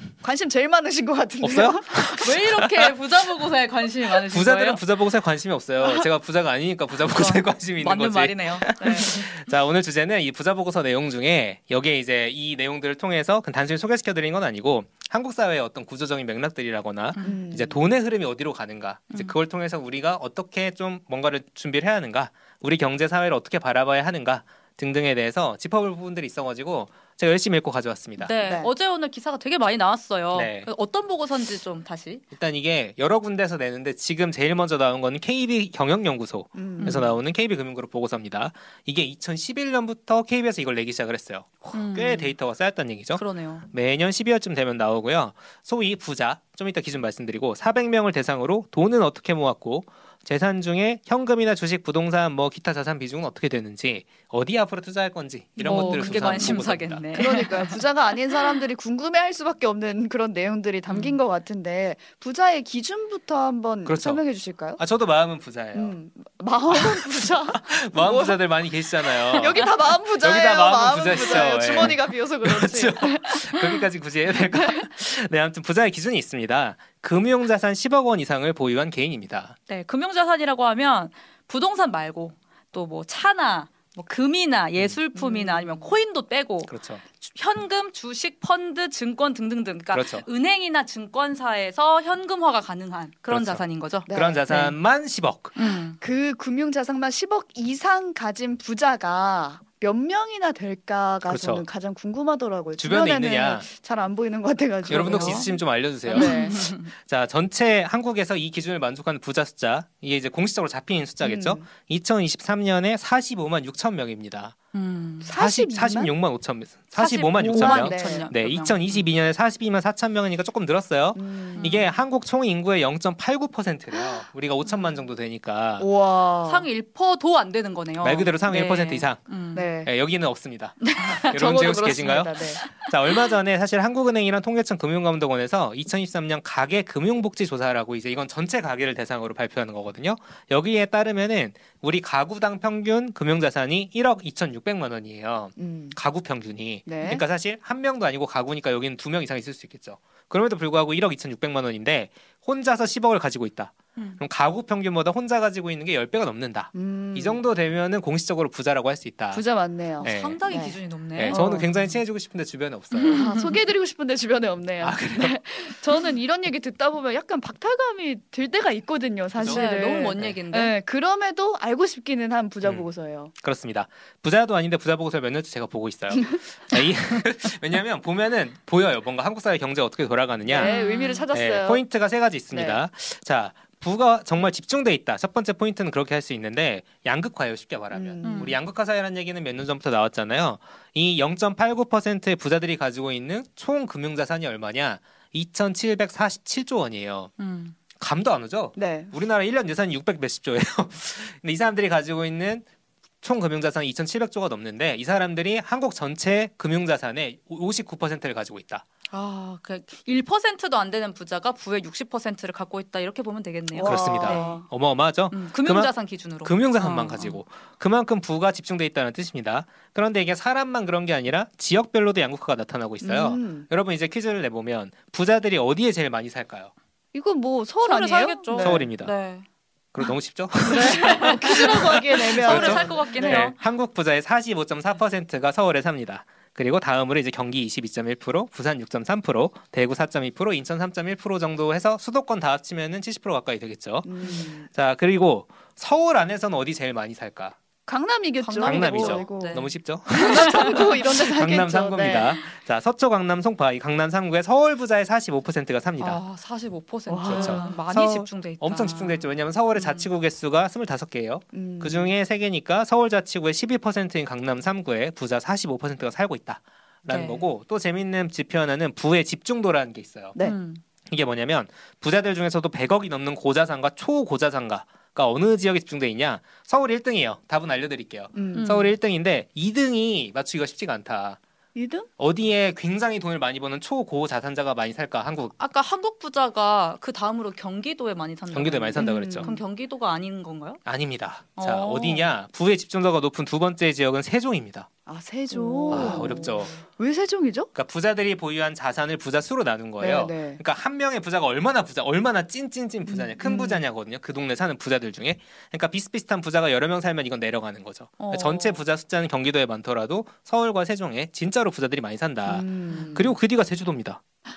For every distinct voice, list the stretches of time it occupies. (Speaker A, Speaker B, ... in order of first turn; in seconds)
Speaker A: 0.2-2.2, 8.8-9.1, 17.2-17.8, 28.4-28.7, 36.5-37.1, 55.6-56.6, 57.1-64.8, 65.7-73.5, 85.2-85.9, 94.1-94.7, 96.0-105.6, 106.1-106.6, 111.2-111.7, 115.2-116.1, 117.4-118.3, 121.2-121.9, 125.8-126.7, 129.5-129.9, 131.2-132.6, 145.6-146.0, 146.9-147.2, 156.7-157.4, 159.3-161.9, 163.1-173.3, 180.5-181.8, 182.5-182.8, 187.9-188.6, 198.8-199.1, 213.7-214.7, 223.0-223.7, 227.1-228.9, 230.7-233.5, 244.0-244.7, 247.9-252.4, 257.1-257.8, 261.5-262.1, 278.3-278.9, 281.8-282.1, 289.0-289.6, 295.1-297.7, 300.0-300.6, 303.1-303.9, 312.5-313.3
Speaker B: 1.4-2.9, 4.2-28.3, 30.3-30.7, 32.3-57.5, 63.9-64.2, 64.8-66.0, 66.7-79.6, 86.7-87.0, 89.9-90.3, 93.3-95.5, 101.3-101.7, 102.8-103.7, 104.9-114.5, 115.3-125.9, 128.0-129.2, 129.8-159.4, 160.0-160.4, 161.2-163.3, 164.8-165.7, 169.4-170.4, 172.6-172.9, 173.4-180.8, 181.3-197.3, 198.0-202.7, 203.2-208.8, 213.8-226.7, 228.6-229.1, 229.9-247.6, 248.6-256.2, 257.3-270.4, 271.1-281.4, 282.2-285.5, 288.5-289.5, 290.9-294.9, 295.9-296.8, 297.7-314.2
Speaker C: 2.0-4.8, 7.0-9.3, 28.2-32.2, 36.8-37.2, 41.7-42.4, 43.2-43.7, 55.6-57.8, 60.9-61.2, 71.0-71.9, 79.7-94.8, 95.5-96.0, 104.9-105.5, 106.1-106.9, 114.7-115.4, 116.9-119.1, 121.6-121.9, 123.9-124.9, 126.4-129.7, 130.8-131.7, 132.5-133.3, 160.0-161.5, 162.9-163.6, 169.4-170.7, 180.5-181.3, 188.2-188.6, 197.4-197.8, 209.1-214.7, 215.3-217.4, 227.8-229.4, 230.7-233.6, 248.4-250.9, 256.0-260.1, 267.1-267.5, 270.4-270.8, 278.6-278.9, 285.6-290.8, 291.6-292.3, 295.5-296.7, 308.2-308.8, 312.9-313.2